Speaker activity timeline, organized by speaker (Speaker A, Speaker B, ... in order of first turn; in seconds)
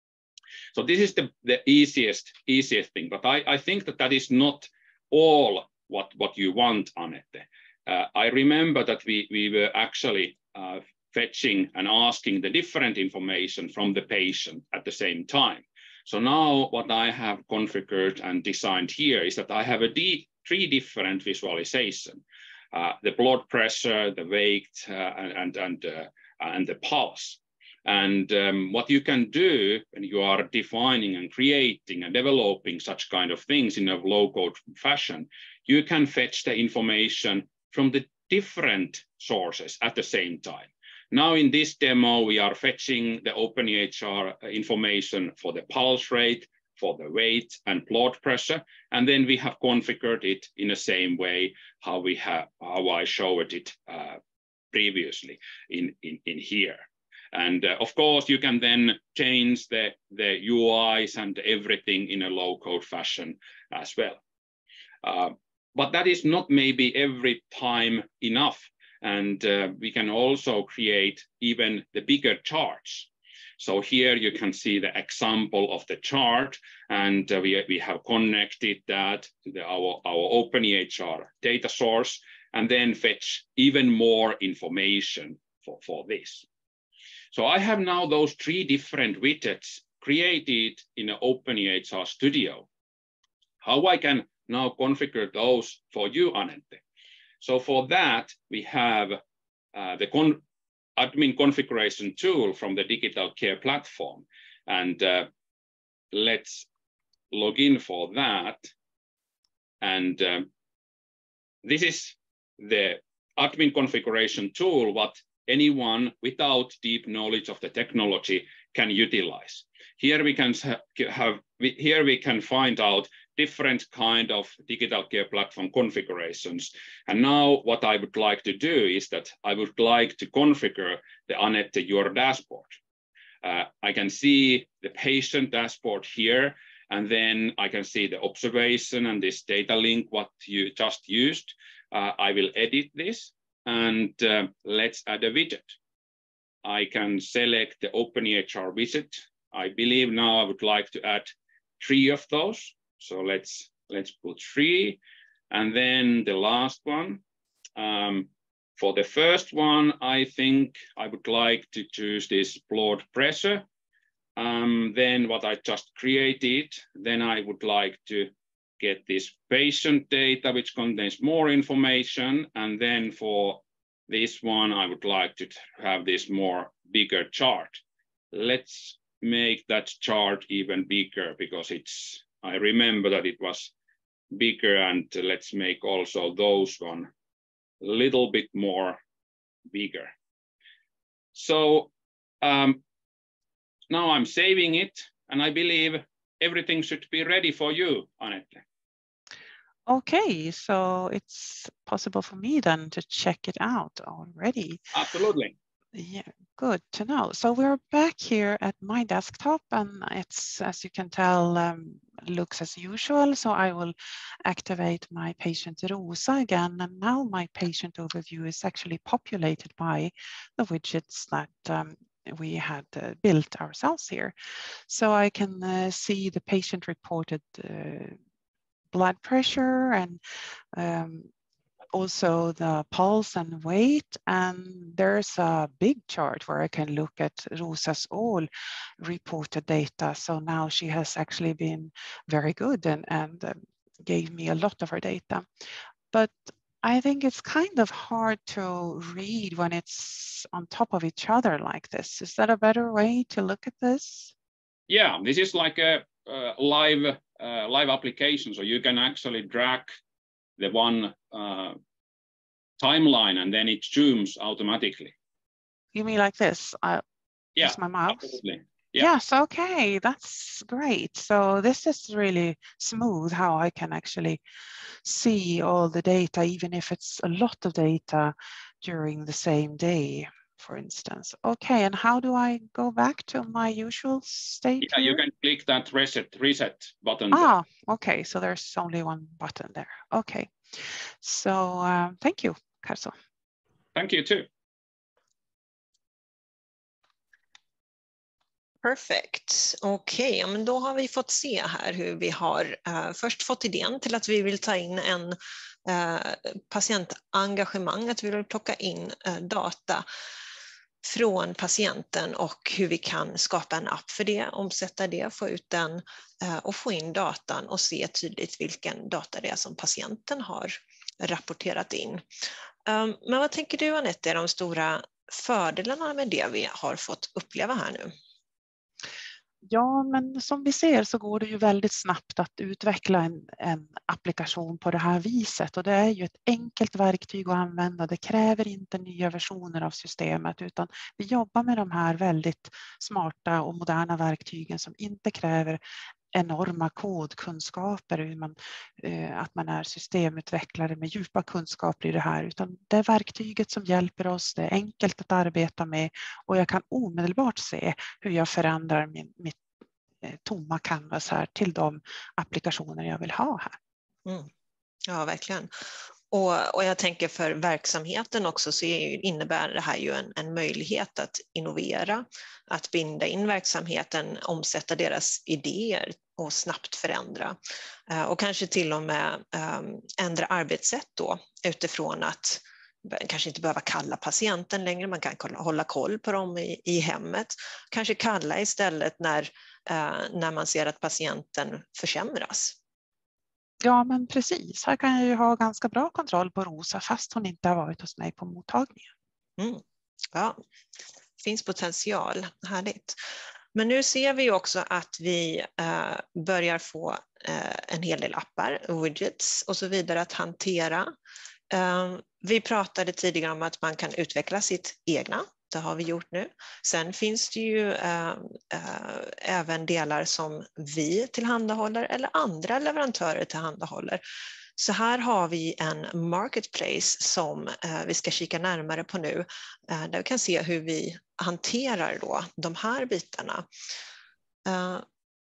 Speaker A: 0.7-54.2, 54.7-64.2, 65.0-86.5, 87.3-92.7, 93.6-96.8, 97.4-99.2, 99.7-100.4, 101.0-105.3, 106.1-106.7, 107.3-108.7, 109.8-110.5, 111.6-132.8, 133.4-145.8, 146.6-155.0, 155.5-157.2, 157.8-163.7, 164.4-183.7, 184.3-187.1, 187.8-189.0, 189.7-190.1, 191.3-192.8, 193.9-198.6, 204.9-205.5, 254.9-259.9, 260.6-261.8, 262.8-265.1, 267.6-269.1, 284.9-287.5, 293.9-294.5
Speaker B: 199.9-204.8, 205.9-224.3, 224.9-228.2, 228.9-230.2, 230.7-231.3, 231.9-245.5, 246.1-254.3, 265.9-267.0, 267.6-268.4, 269.0-274.4, 275.0-285.2, 287.3-293.1, 329.7-345.8, 346.3-359.6, 360.2-363.8, 393.8-399.1
Speaker C: 298.8-310.1, 311.0-322.2, 322.9-328.1, 365.1-365.7, 366.3-377.6, 378.1-392.8, 399.6-400.6, 401.4-403.2, 403.7-411.1, 411.7-424.2, 424.8-433.7, 434.7-435.1